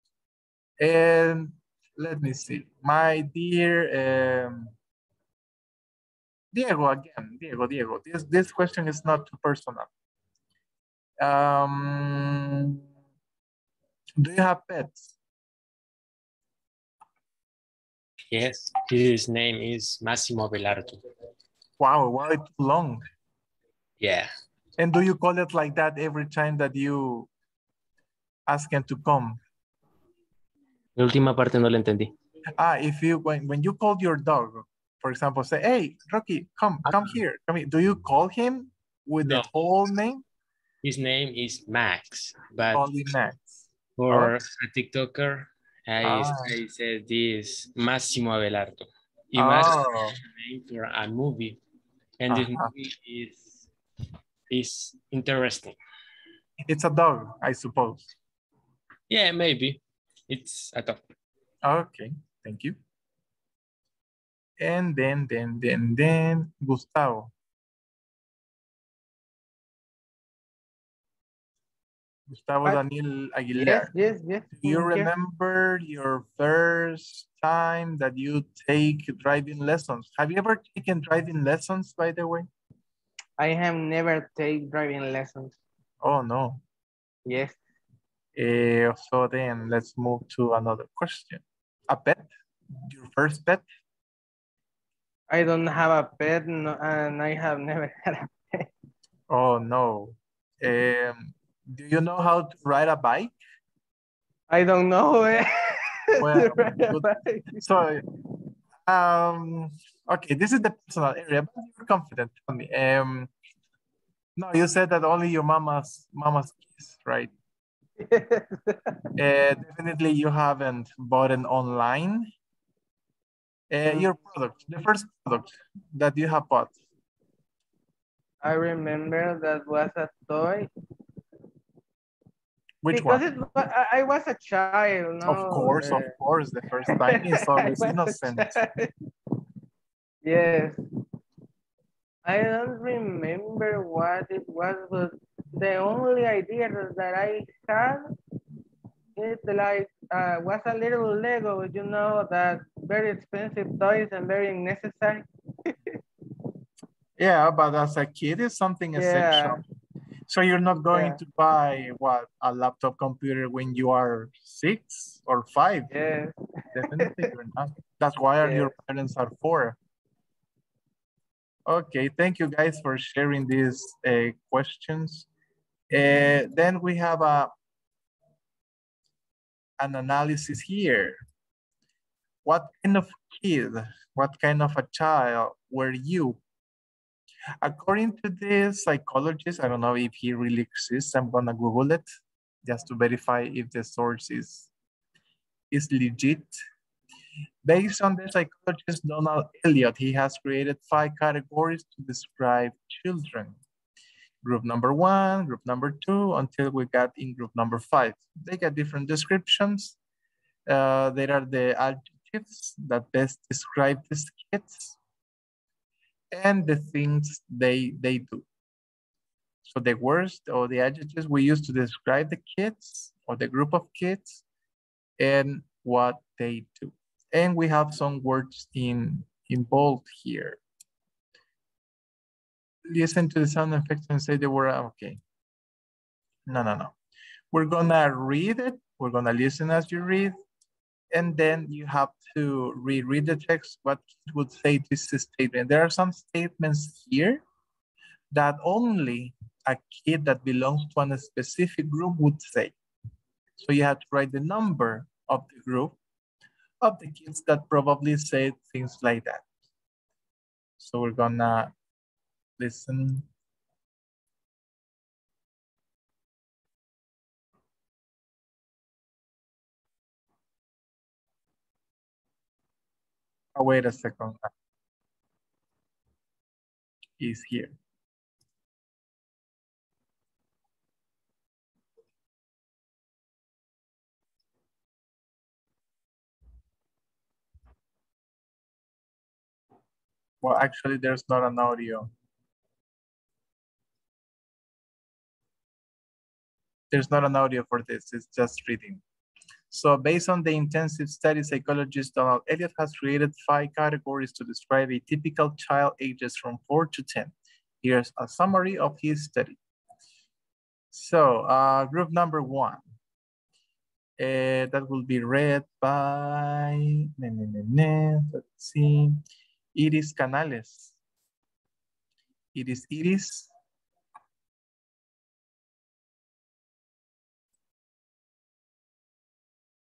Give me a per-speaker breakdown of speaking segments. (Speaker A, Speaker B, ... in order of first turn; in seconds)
Speaker A: 0.8-4.7, 6.5-9.9, 11.2-12.8, 14.2-15.1, 21.8-23.0, 24.8-27.3, 28.5-29.4, 32.6-40.2, 42.7-43.5, 44.1-44.4, 46.0-46.5, 49.4-50.2, 52.3-52.7, 56.6-58.1, 61.6-62.8, 64.6-67.3, 72.3-73.9, 74.5-82.5, 86.0-86.6, 88.3-92.3, 92.8-93.6, 99.3-103.3, 106.2-108.0, 108.8-113.3, 114.4-117.3, 119.2-122.3, 123.7-126.7, 132.8-133.2, 135.2-138.6, 157.2-159.6, 160.3-165.9, 166.7-169.8, 171.7-175.3, 175.9-177.5, 179.8-181.2, 182.4-186.4, 187.6-192.0, 192.6-194.7, 195.7-196.6, 197.6-203.6, 204.4-209.9, 210.7-215.0, 216.3-218.4, 219.6-224.4, 225.2-230.6, 232.9-235.2, 236.5-236.9, 237.5-240.3, 241.1-247.4, 248.3-252.7, 253.6-255.9, 256.8-259.4, 260.8-261.7, 262.6-263.3, 273.5-274.5, 277.2-277.7, 290.4-292.1, 296.9-299.0, 299.7-309.6, 310.9-312.8, 314.2-319.2, 319.7-320.9, 322.5-323.5
Speaker B: 18.3-21.0, 24.0-24.3, 30.9-32.1, 36.9-37.2, 40.8-42.8, 44.0-51.6, 52.2-53.6, 54.5-55.8, 59.1-61.0
Speaker C: 73.5-75.1, 83.4-85.5, 87.2-87.6, 95.3-98.7, 104.5-107.6, 118.0-119.0, 128.4-130.7, 132.9-136.1, 136.9-138.9, 140.2-140.8, 142.2-148.1, 149.2-156.0, 158.9-159.6, 160.9-161.2, 165.9-167.2, 168.4-168.7